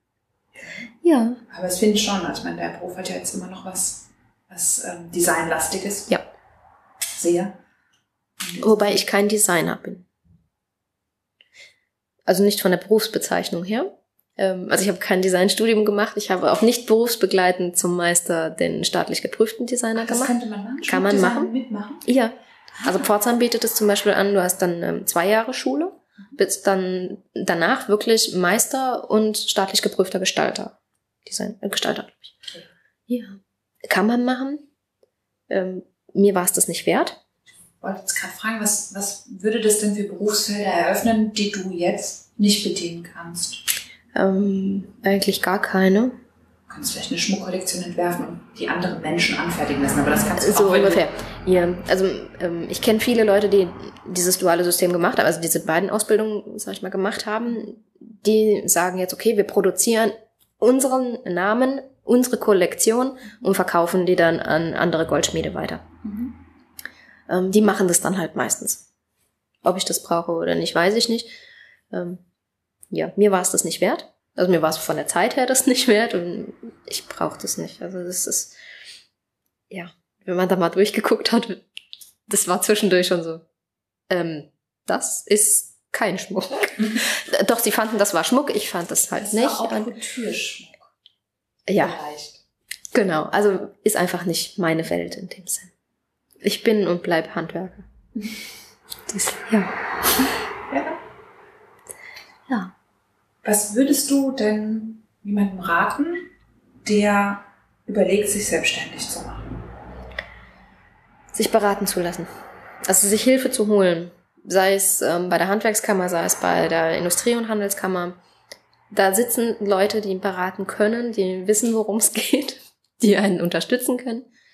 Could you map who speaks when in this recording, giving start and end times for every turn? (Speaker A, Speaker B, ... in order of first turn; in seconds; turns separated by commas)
Speaker A: 1.0-1.4, Speaker B: 1.5-6.2, Speaker B: 7.1-7.6, Speaker B: 8.4-9.0, Speaker A: 8.6-10.1, Speaker A: 12.3-20.3, Speaker B: 20.0-22.1, Speaker A: 20.9-21.5, Speaker A: 22.1-32.3, Speaker A: 33.1-34.6, Speaker A: 35.5-37.2, Speaker B: 37.8-43.6, Speaker A: 44.1-46.2, Speaker B: 46.7-51.0, Speaker A: 50.4-65.8, Speaker B: 66.0-66.3, Speaker A: 67.3-68.8, Speaker A: 69.6-71.3, Speaker A: 71.9-72.2, Speaker A: 72.9-78.5, Speaker A: 79.7-81.6, Speaker A: 82.3-83.4, Speaker A: 84.1-89.9, Speaker B: 89.2-90.9, Speaker A: 91.7-92.0, Speaker B: 91.8-92.4, Speaker A: 92.9-95.7, Speaker A: 96.4-97.9, Speaker A: 99.1-99.7, Speaker B: 100.7-101.0, Speaker B: 103.4-106.3, Speaker B: 106.8-109.7, Speaker A: 111.3-112.3, Speaker A: 112.9-118.2, Speaker A: 118.9-124.3